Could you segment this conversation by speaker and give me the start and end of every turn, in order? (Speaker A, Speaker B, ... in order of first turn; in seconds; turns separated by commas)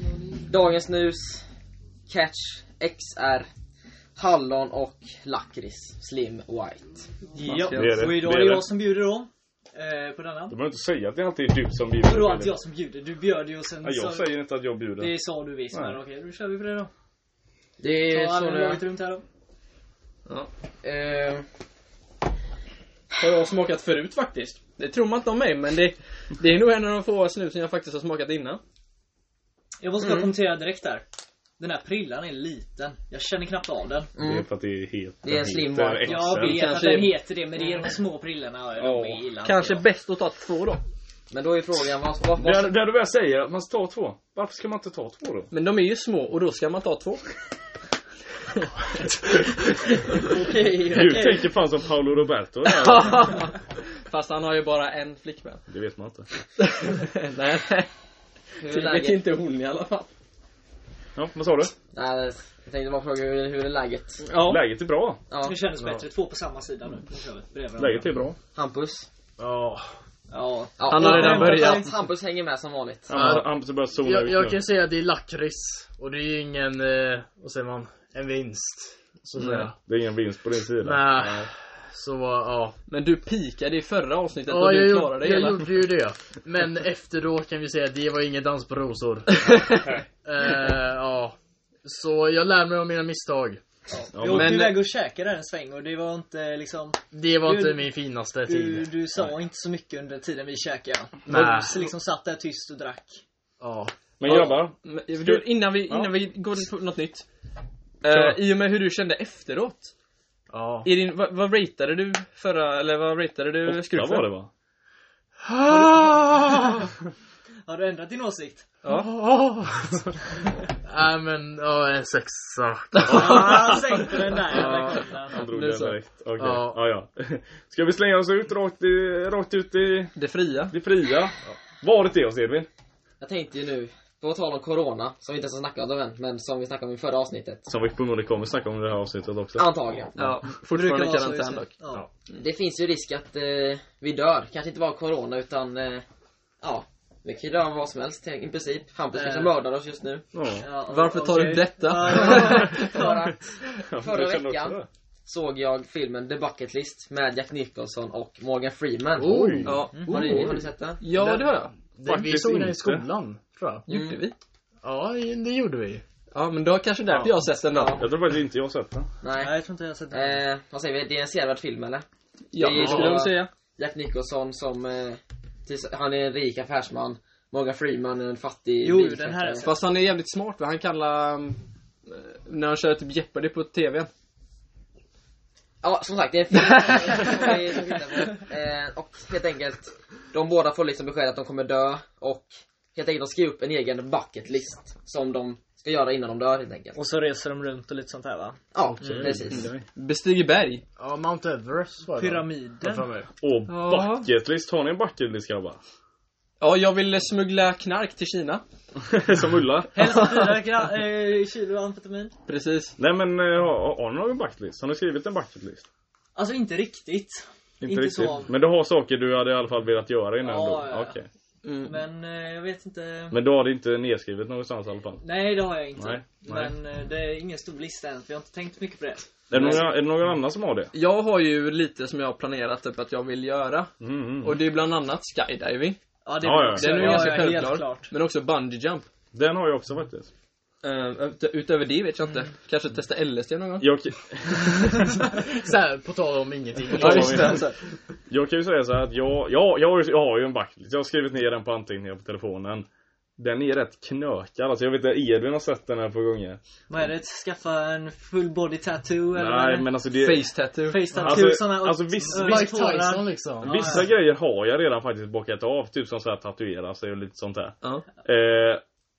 Speaker A: 0.5-1.5, Speaker A: 2.1-3.5, Speaker A: 4.2-7.1, Speaker B: 7.3-10.6, Speaker C: 7.4-8.0, Speaker D: 7.7-8.7, Speaker D: 10.5-12.6, Speaker B: 12.0-14.3, Speaker D: 13.8-15.2, Speaker B: 15.0-16.9, Speaker D: 15.7-16.0, Speaker A: 17.8-18.8, Speaker B: 18.1-19.2, Speaker A: 20.8-21.5, Speaker C: 23.2-28.6, Speaker B: 29.8-31.0, Speaker A: 30.0-30.3, Speaker B: 31.6-34.1, Speaker A: 34.2-34.5, Speaker D: 34.2-36.9, Speaker A: 35.2-36.4, Speaker B: 36.0-39.8, Speaker C: 36.4-37.2, Speaker A: 37.6-37.9, Speaker D: 38.8-39.2, Speaker C: 39.4-40.8, Speaker A: 41.3-42.7, Speaker D: 42.4-45.5, Speaker C: 45.5-47.3, Speaker A: 50.3-51.4, Speaker B: 50.3-51.5, Speaker D: 50.9-53.5, Speaker C: 52.6-55.6, Speaker D: 55.7-56.3, Speaker C: 56.6-57.9, Speaker A: 58.6-59.2, Speaker C: 58.6-60.1, Speaker D: 61.2-61.7, Speaker A: 61.9-64.2, Speaker C: 64.2-64.6, Speaker D: 64.4-65.2, Speaker A: 65.3-65.6, Speaker B: 65.4-68.1, Speaker D: 67.8-68.4, Speaker A: 68.5-69.1, Speaker E: 69.4-69.9, Speaker B: 70.3-71.9, Speaker A: 70.8-73.1, Speaker C: 70.9-71.8, Speaker D: 73.1-74.6, Speaker E: 73.1-79.8, Speaker C: 79.4-79.7, Speaker D: 79.8-81.5, Speaker E: 80.8-82.8, Speaker C: 82.9-85.7, Speaker E: 84.5-93.6, Speaker D: 89.7-90.0, Speaker B: 93.9-97.9, Speaker D: 94.2-94.7, Speaker C: 94.3-94.8, Speaker E: 97.1-98.9, Speaker B: 98.5-103.2, Speaker E: 101.3-101.8, Speaker E: 103.6-103.9, Speaker D: 104.2-106.1, Speaker C: 104.2-107.3, Speaker C: 108.0-109.9, Speaker D: 108.1-108.4, Speaker E: 110.5-110.9, Speaker C: 110.8-114.3, Speaker D: 113.7-114.5, Speaker E: 115.4-116.9, Speaker B: 115.7-116.7, Speaker B: 117.7-118.7, Speaker C: 118.8-119.1, Speaker E: 118.9-120.1, Speaker E: 120.8-123.8, Speaker C: 123.0-123.6, Speaker B: 123.0-125.4, Speaker D: 123.1-130.1, Speaker C: 124.5-126.0, Speaker E: 126.4-126.8, Speaker C: 130.2-130.7, Speaker D: 130.7-132.7, Speaker A: 133.2-137.7, Speaker D: 137.7-140.4, Speaker A: 139.6-140.2, Speaker C: 140.2-141.7, Speaker B: 140.7-142.1, Speaker A: 142.4-146.1, Speaker A: 146.6-150.2, Speaker B: 149.1-149.5, Speaker D: 150.3-150.7, Speaker B: 150.6-153.3, Speaker C: 150.9-152.9, Speaker A: 152.1-161.0, Speaker D: 153.8-154.9, Speaker E: 159.2-160.0, Speaker D: 159.3-160.6, Speaker C: 159.7-161.7, Speaker E: 161.1-163.8, Speaker D: 162.1-163.1, Speaker C: 163.9-164.3, Speaker A: 163.9-164.2, Speaker E: 164.8-166.0, Speaker C: 166.3-168.0, Speaker A: 167.7-168.0, Speaker D: 167.9-169.1, Speaker A: 169.2-169.6, Speaker B: 169.4-170.4, Speaker A: 170.1-179.7, Speaker C: 172.5-173.5, Speaker E: 172.8-173.1, Speaker B: 178.8-179.7, Speaker C: 179.6-184.1, Speaker A: 185.8-197.0, Speaker C: 186.5-187.6, Speaker B: 196.9-198.6, Speaker A: 198.7-199.7, Speaker D: 199.0-199.8, Speaker C: 199.5-200.8, Speaker E: 201.0-203.3, Speaker B: 202.0-203.1, Speaker D: 203.4-205.8, Speaker C: 203.7-204.3, Speaker C: 206.6-208.6, Speaker D: 209.1-210.2, Speaker B: 209.9-212.3, Speaker C: 210.0-210.7, Speaker C: 212.5-213.0, Speaker D: 213.0-215.8, Speaker B: 216.4-218.5, Speaker D: 217.8-221.3, Speaker B: 220.4-221.2, Speaker C: 221.6-222.0, Speaker B: 221.8-223.4, Speaker D: 223.3-225.2, Speaker B: 225.2-229.9, Speaker D: 226.0-226.7, Speaker D: 229.5-230.9, Speaker C: 229.5-229.9, Speaker C: 230.9-236.0, Speaker D: 234.0-234.6, Speaker B: 236.2-238.1, Speaker D: 236.4-237.4, Speaker C: 236.7-239.1, Speaker D: 239.3-240.3, Speaker C: 240.8-243.9, Speaker D: 243.8-245.1, Speaker E: 245.4-247.7, Speaker D: 246.9-247.7, Speaker C: 247.0-247.8, Speaker D: 248.3-256.6, Speaker B: 256.9-259.9, Speaker D: 259.3-260.5, Speaker C: 260.1-261.1, Speaker B: 260.9-264.1, Speaker D: 261.2-262.9, Speaker E: 262.3-264.1, Speaker D: 263.6-268.8